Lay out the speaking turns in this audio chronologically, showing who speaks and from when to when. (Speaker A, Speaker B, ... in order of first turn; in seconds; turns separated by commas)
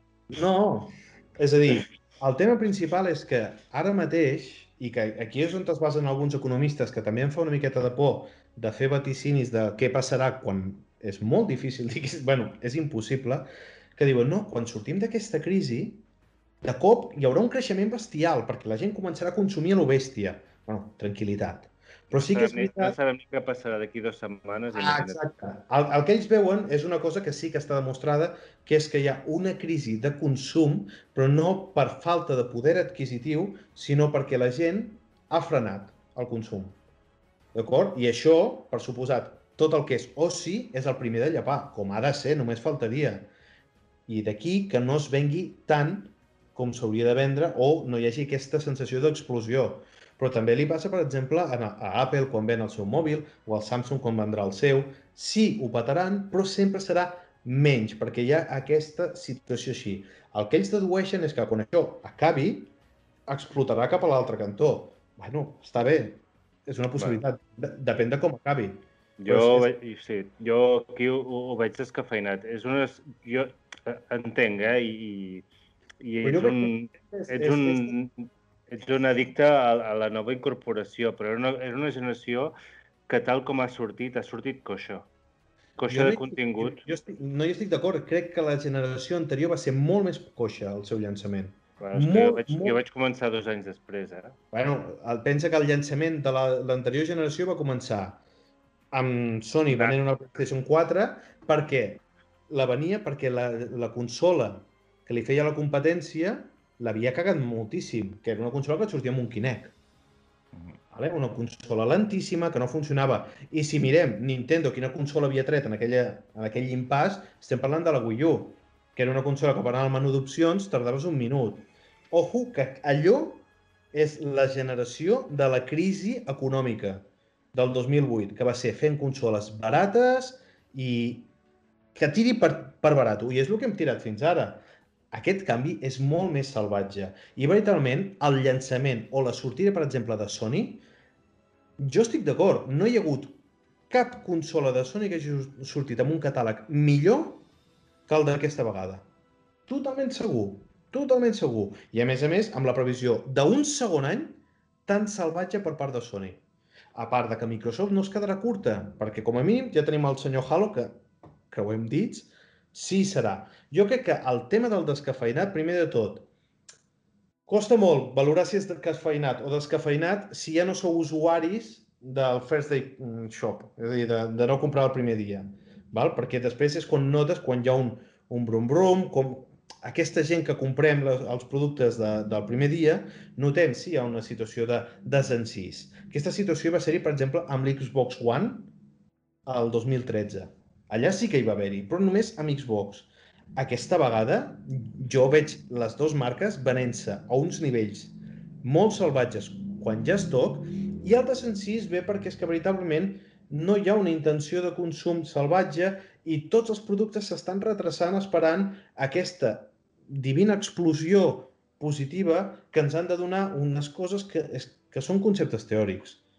Speaker A: 0.3-16.0, Speaker A: 16.6-22.9, Speaker B: 22.1-25.2, Speaker A: 24.7-36.8, Speaker A: 37.5-43.3, Speaker A: 44.1-62.7, Speaker A: 63.3-69.7, Speaker B: 67.0-67.2, Speaker B: 69.2-75.5, Speaker B: 76.0-82.5, Speaker A: 76.2-77.9, Speaker B: 83.1-85.1, Speaker B: 85.8-86.8, Speaker A: 85.9-92.8, Speaker B: 91.8-94.3, Speaker A: 94.5-98.2, Speaker A: 98.9-109.7, Speaker B: 99.7-100.0, Speaker A: 110.9-131.3, Speaker A: 131.9-140.8, Speaker A: 141.8-143.4, Speaker A: 143.9-147.4, Speaker A: 148.1-149.1, Speaker A: 149.7-156.4, Speaker A: 156.9-166.3, Speaker A: 167.5-188.7, Speaker A: 189.4-216.2